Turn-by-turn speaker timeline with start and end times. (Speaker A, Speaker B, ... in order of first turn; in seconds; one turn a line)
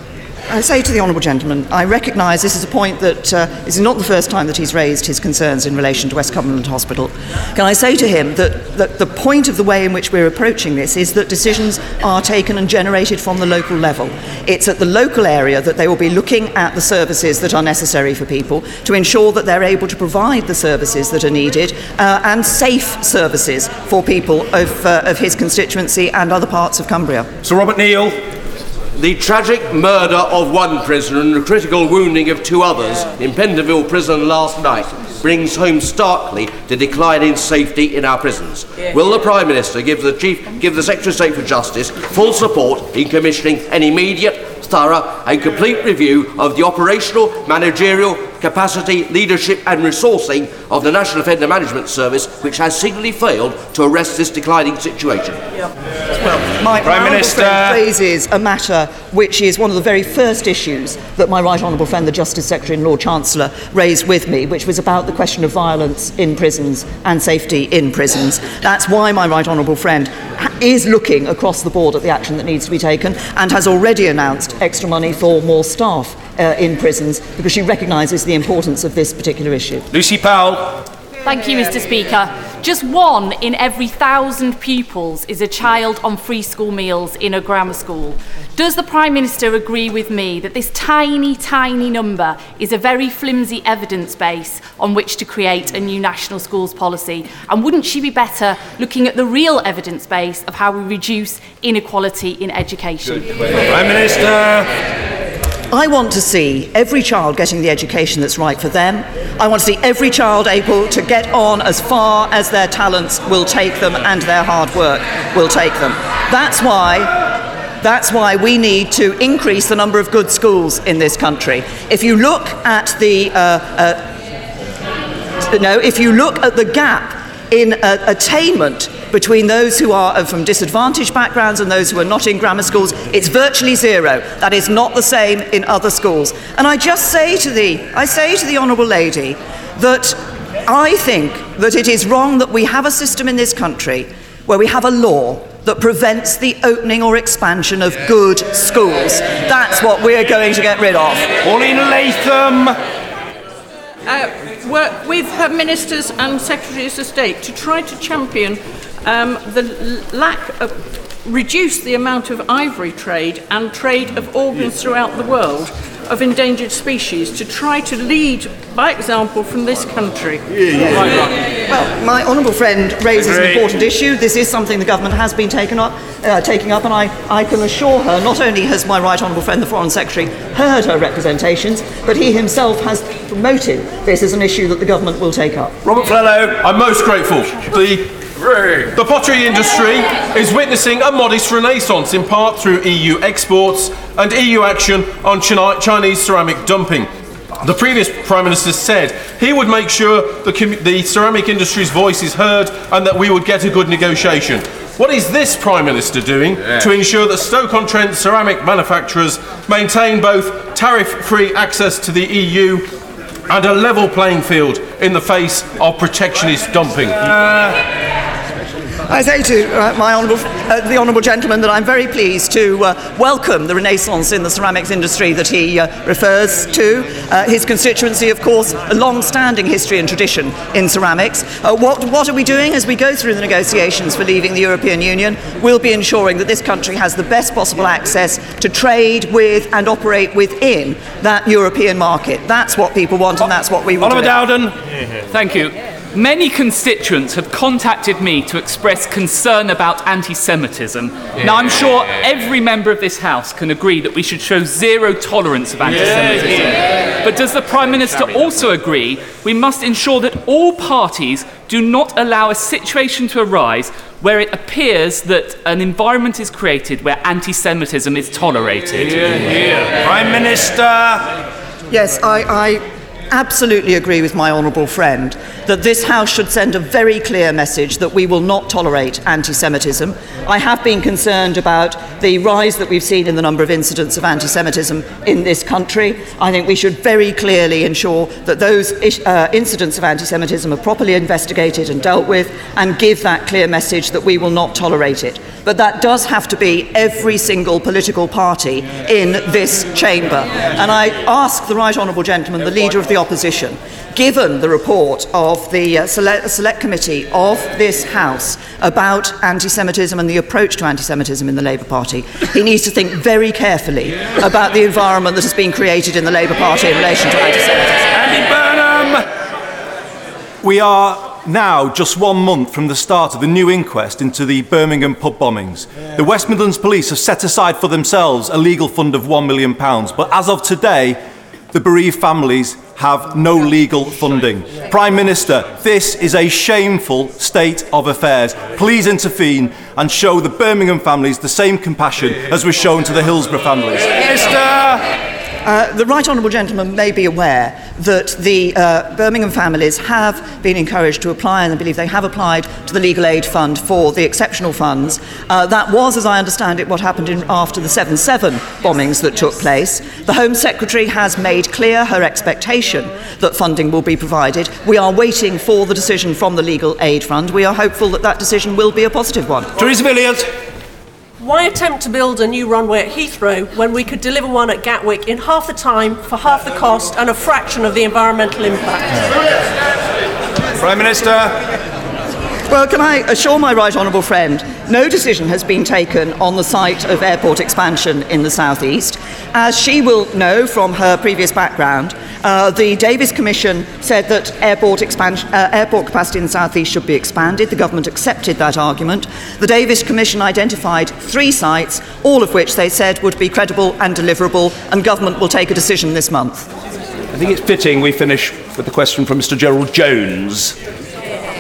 Speaker A: 0.5-27.3
Speaker B: 27.6-28.1
Speaker C: 29.0-55.4
Speaker A: 56.2-79.9
Speaker B: 57.2-57.8
Speaker B: 79.9-80.8
Speaker D: 81.2-103.5
Speaker E: 104.0-104.6
Speaker A: 105.7-117.2
Speaker A: 117.8-124.1
Speaker A: 125.5-151.3
Speaker B: 151.5-152.6
Speaker F: 154.1-170.4
Speaker A: 171.7-185.8
Speaker G: 185.9-188.1
Speaker G: 188.9-212.9
Speaker G: 213.5-217.4
Speaker A: 219.1-244.5
Speaker H: 245.3-269.3
Speaker B: 270.0-271.0
Speaker A: 271.9-318.1
Speaker E: 318.3-319.2
Speaker E: 320.6-331.2
Speaker E: 331.7-345.0
Speaker A: 345.6-369.7
Speaker B: 369.9-370.4
Speaker I: 371.4-379.3
Speaker E: 380.8-381.5
Speaker A: 382.7-406.7
Speaker B: 407.4-410.7